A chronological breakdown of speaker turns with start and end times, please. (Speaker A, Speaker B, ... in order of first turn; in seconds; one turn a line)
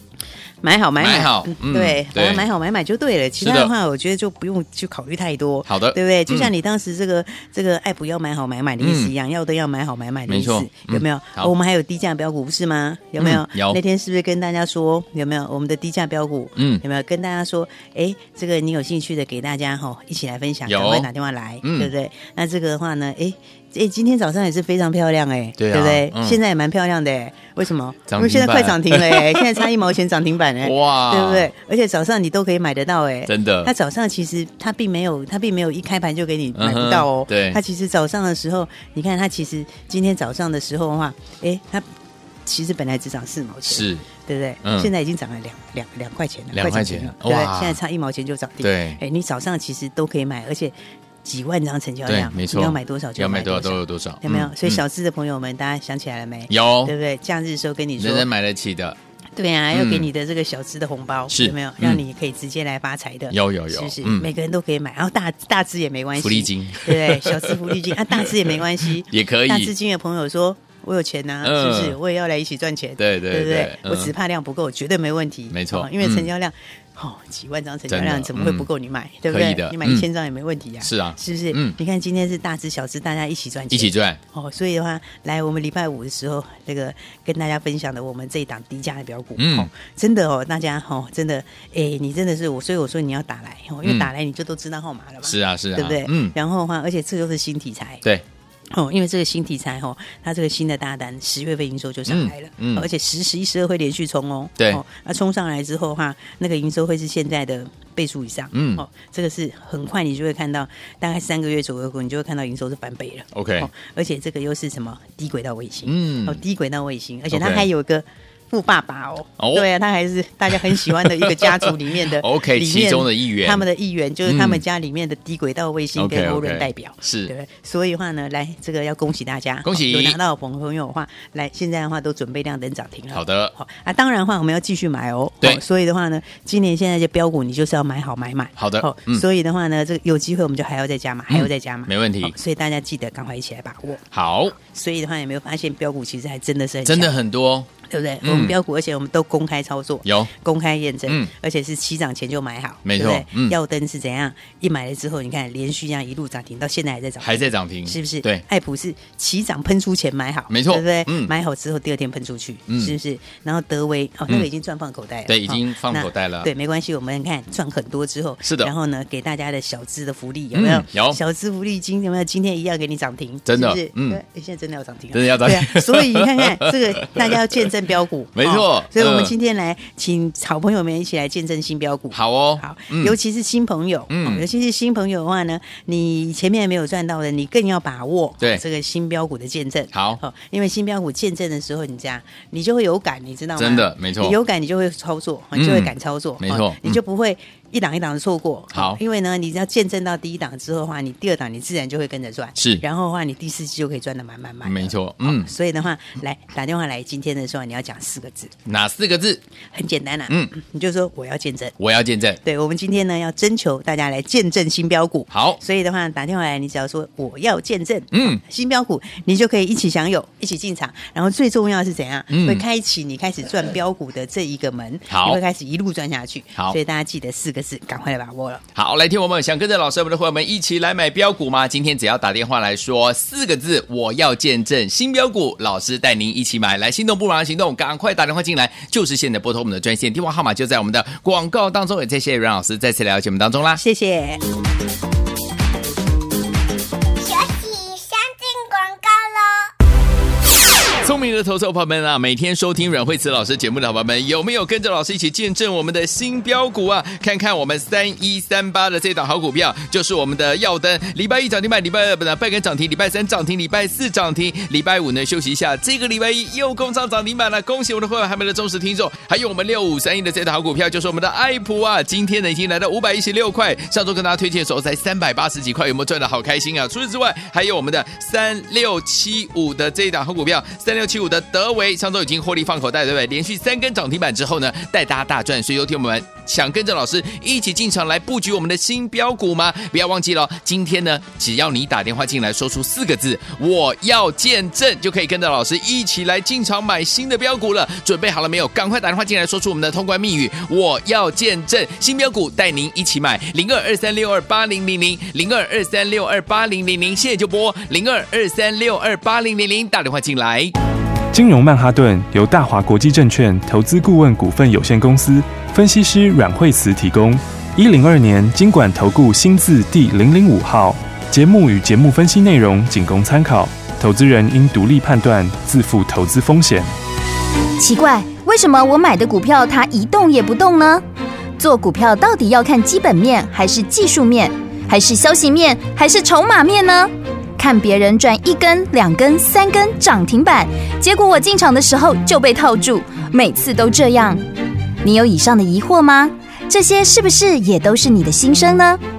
Speaker A: 0.6-41.9
Speaker B: 1.0-2.5
Speaker B: 3.4-3.7
Speaker B: 5.7-6.5
Speaker B: 8.8-9.1
Speaker B: 10.3-11.5
Speaker B: 13.2-13.8
Speaker B: 16.6-16.8
Speaker B: 20.7-21.1
Speaker B: 21.6-21.9
Speaker B: 25.6-26.4
Speaker B: 28.1-29.5
Speaker B: 30.6-31.5
Speaker B: 33.3-33.7
Speaker B: 36.5-37.6
Speaker A: 42.5-58.3
Speaker B: 43.7-44.1
Speaker B: 44.6-44.9
Speaker B: 46.5-47.8
Speaker B: 48.6-49.0
Speaker B: 52.1-54.8
Speaker B: 56.5-56.9
Speaker B: 58.0-59.0
Speaker A: 59.4-98.0
Speaker B: 59.7-60.1
Speaker B: 61.3-62.0
Speaker B: 63.3-64.3
Speaker B: 66.2-69.7
Speaker B: 71.4-72.0
Speaker B: 73.0-74.1
Speaker B: 75.5-76.3
Speaker B: 77.9-78.7
Speaker B: 79.3-80.1
Speaker B: 80.8-81.8
Speaker B: 83.7-84.2
Speaker B: 89.4-89.7
Speaker B: 93.8-94.1
Speaker B: 95.2-96.3
Speaker A: 98.7-144.0
Speaker B: 102.1-102.9
Speaker B: 108.5-108.8
Speaker B: 113.3-113.7
Speaker B: 115.9-116.4
Speaker B: 117.3-117.7
Speaker B: 119.4-119.7
Speaker B: 120.5-123.7
Speaker B: 124.2-124.6
Speaker B: 126.0-127.3
Speaker B: 129.7-130.2
Speaker B: 133.1-133.6
Speaker B: 138.6-139.2
Speaker B: 141.3-142.3
Speaker B: 144.1-144.6
Speaker A: 144.6-147.2
Speaker B: 146.8-147.7
Speaker A: 147.9-208.5
Speaker B: 148.2-148.6
Speaker B: 150.1-150.3
Speaker B: 151.1-151.3
Speaker B: 152.8-153.6
Speaker B: 157.2-158.4
Speaker B: 160.5-161.3
Speaker B: 162.7-162.9
Speaker B: 165.3-166.5
Speaker B: 168.4-168.7
Speaker B: 170.5-171.2
Speaker B: 173.5-174.2
Speaker B: 175.1-177.7
Speaker B: 178.3-179.3
Speaker B: 182.1-183.2
Speaker B: 184.1-184.4
Speaker B: 189.9-190.2
Speaker B: 193.6-194.4
Speaker B: 195.6-197.0
Speaker B: 198.7-199.0
Speaker B: 202.6-202.8
Speaker B: 204.7-205.5
Speaker B: 208.7-209.4
Speaker A: 209.7-211.8
Speaker B: 211.8-212.4
Speaker A: 212.4-228.6
Speaker B: 215.3-215.6
Speaker B: 218.1-218.4
Speaker B: 222.3-222.6
Speaker B: 225.1-225.4
Speaker B: 228.8-243.8
Speaker A: 243.8-244.4
Speaker C: 247.2-249.7
Speaker B: 251.0-310.7
Speaker D: 311.3-326.9
Speaker E: 327.8-331.0
Speaker E: 331.6-344.4
Speaker E: 345.0-349.0